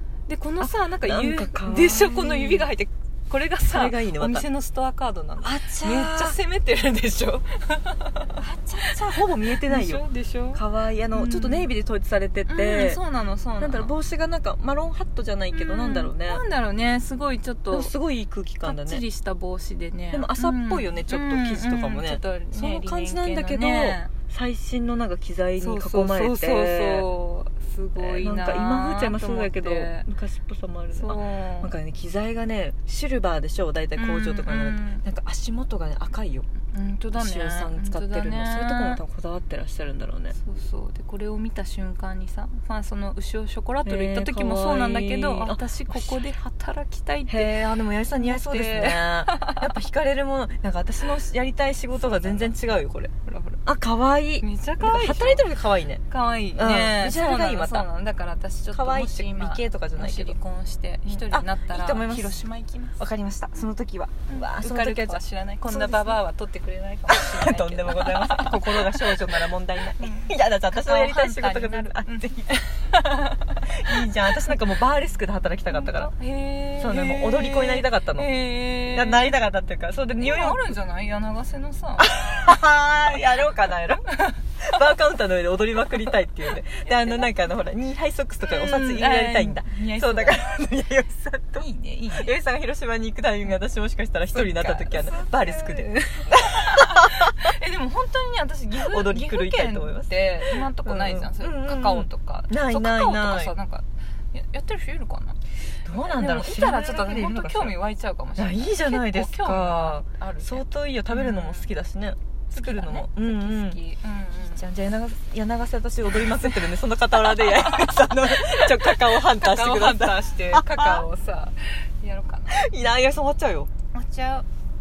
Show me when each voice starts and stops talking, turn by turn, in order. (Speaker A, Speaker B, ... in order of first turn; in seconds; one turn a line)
Speaker A: 0.3-10.6
Speaker B: 0.6-2.7
Speaker B: 3.7-4.5
Speaker B: 5.4-6.4
Speaker B: 8.8-10.0
Speaker B: 10.5-13.0
Speaker A: 11.1-11.7
Speaker A: 12.5-13.9
Speaker B: 13.6-16.4
Speaker A: 15.5-17.9
Speaker B: 17.7-19.0
Speaker A: 18.6-24.1
Speaker B: 20.1-27.1
Speaker A: 25.6-30.1
Speaker B: 28.0-36.5
Speaker A: 30.9-31.7
Speaker A: 34.0-35.0
Speaker A: 36.7-39.0
Speaker B: 37.1-40.4
Speaker A: 40.4-49.7
Speaker B: 43.9-46.1
Speaker B: 47.3-53.1
Speaker A: 51.9-52.6
Speaker A: 53.3-53.6
Speaker B: 53.6-56.0
Speaker A: 54.4-55.5
Speaker A: 56.1-63.0
Speaker B: 56.6-57.9
Speaker B: 58.7-60.4
Speaker B: 61.1-62.4
Speaker B: 63.0-66.2
Speaker A: 64.3-69.5
Speaker B: 67.1-72.4
Speaker A: 70.0-74.1
Speaker B: 73.6-76.1
Speaker A: 75.7-79.4
Speaker B: 76.8-80.6
Speaker A: 80.2-82.1
Speaker B: 82.0-97.5
Speaker A: 84.0-84.4
Speaker A: 86.9-87.3
Speaker A: 88.4-90.5
Speaker A: 91.6-92.3
Speaker A: 94.3-105.4
Speaker B: 98.8-103.6
Speaker B: 105.8-107.8
Speaker A: 106.0-111.7
Speaker B: 108.4-113.8
Speaker A: 112.5-114.6
Speaker B: 114.4-121.0
Speaker A: 117.4-122.7
Speaker B: 122.5-123.7
Speaker A: 123.9-124.5